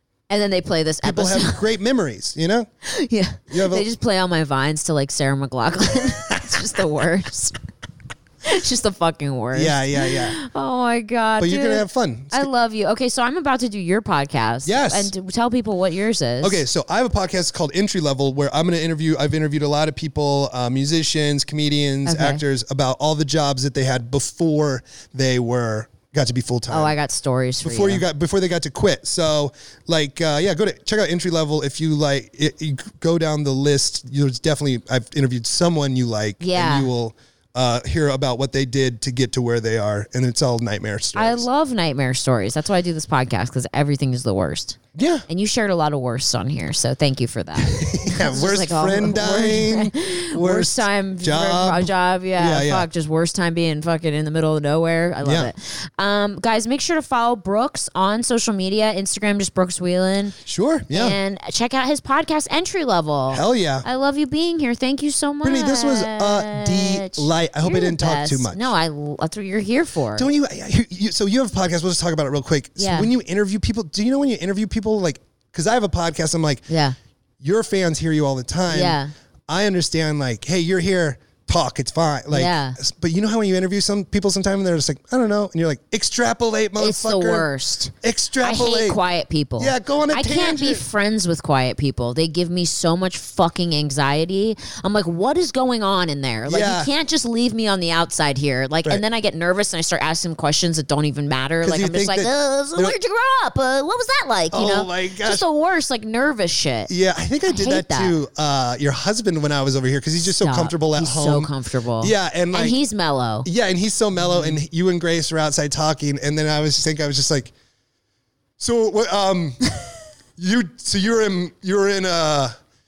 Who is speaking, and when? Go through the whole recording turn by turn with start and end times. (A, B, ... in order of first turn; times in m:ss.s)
0:00.3-0:01.6 A
0:01.0-0:02.7 B
0:02.8-0:07.6 A
0:03.5-0:03.9 B
0:08.4-0:16.6 A
0:09.5-0:10.4 B
0:11.4-0:12.5 B
0:14.6-0:15.1 B
0:16.4-0:26.9 B
0:22.0-0:22.4 A
0:26.7-0:28.0 A
0:27.6-0:41.4 B
0:36.4-0:36.9 A
0:41.1-1:00.4 A
0:44.9-0:45.2 B
0:47.6-0:52.9 B
0:55.2-0:55.5 B
1:00.4-1:01.2 B
1:00.9-1:10.3 A
1:03.3-1:03.8 B
1:05.4-1:08.7 B
1:10.2-1:16.6 B
1:12.8-1:13.1 A
1:16.7-1:17.0 A
1:17.4-1:29.0 B
1:18.7-1:19.1 A
1:22.3-1:22.8 A
1:26.8-1:46.9 A
1:29.6-1:30.8 B
1:36.5-1:36.9 B
1:41.6-1:42.9 B
1:44.5-1:45.4 B
1:46.9-1:52.8 B
1:47.4-1:48.1 A
1:50.3-1:53.5 A
1:53.4-1:57.5 B
1:54.2-1:54.6 A
1:58.6-2:02.5 B